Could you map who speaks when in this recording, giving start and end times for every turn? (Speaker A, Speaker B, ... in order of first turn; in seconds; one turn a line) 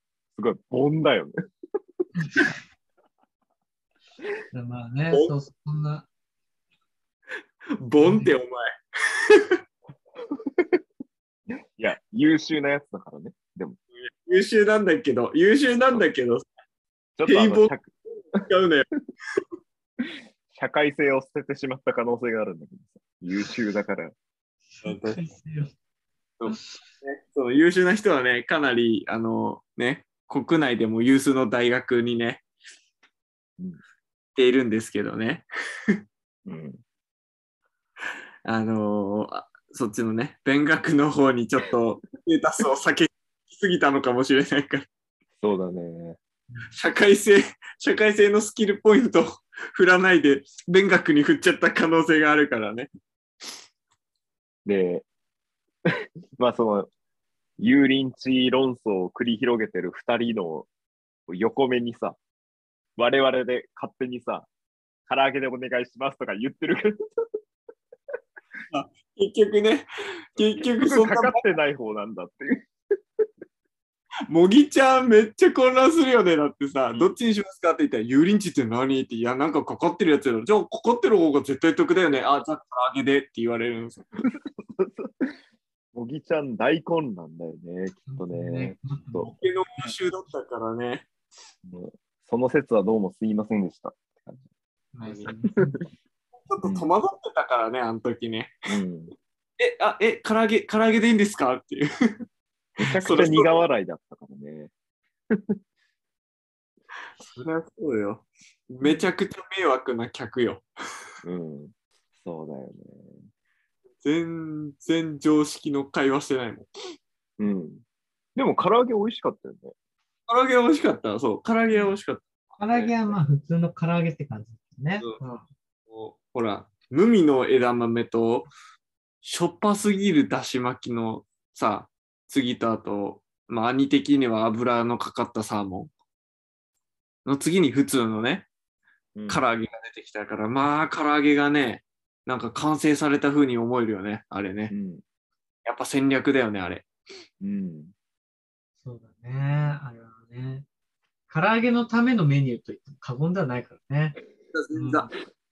Speaker A: 0.3-1.3
Speaker B: 2.1-2.5
Speaker B: 4.5-6.1
Speaker C: 7.7-8.7
Speaker B: 8.0-8.3
Speaker C: 9.3-9.6
Speaker A: 11.8-13.8
Speaker C: 14.0-16.4
Speaker A: 17.1-17.9
Speaker C: 17.2-17.7
Speaker C: 18.4-18.9
Speaker A: 20.0-24.1
Speaker B: 24.7-25.7
Speaker C: 24.8-25.2
Speaker C: 26.4-32.4
Speaker C: 34.3-35.5
Speaker A: 36.5-36.8
Speaker C: 38.4-44.9
Speaker A: 45.4-46.2
Speaker C: 46.7-52.9
Speaker A: 54.6-55.1
Speaker A: 56.4-56.9
Speaker A: 57.6-60.7
Speaker A: 61.3-62.2
Speaker A: 63.0-64.5
Speaker A: 65.1-67.0
Speaker C: 68.7-71.4
Speaker A: 70.5-72.6
Speaker C: 74.3-84.0
Speaker A: 76.9-77.2
Speaker A: 84.8-85.1
Speaker A: 85.9-89.3
Speaker B: 88.1-90.0
Speaker C: 89.4-91.1
Speaker A: 91.6-94.5
Speaker B: 94.9-95.8
Speaker C: 96.4-98.5
Speaker A: 96.6-96.9
Speaker A: 98.7-99.1
Speaker C: 99.6-101.9
Speaker A: 102.8-104.7
Speaker C: 102.9-103.6
Speaker C: 107.2-110.7
Speaker A: 111.2-113.2
Speaker C: 114.0-116.7
Speaker A: 117.4-117.8
Speaker A: 118.3-119.7
Speaker C: 120.3-122.9
Speaker B: 122.6-125.5
Speaker C: 125.9-128.5
Speaker C: 129.2-135.9
Speaker C: 137.2-138.5
Speaker A: 139.1-139.4
Speaker C: 139.3-144.7
Speaker A: 144.7-145.0
Speaker C: 145.6-146.8
Speaker A: 147.4-147.9
Speaker B: 148.8-150.7
Speaker B: 151.3-154.2
Speaker C: 154.5-155.1
Speaker B: 154.7-155.1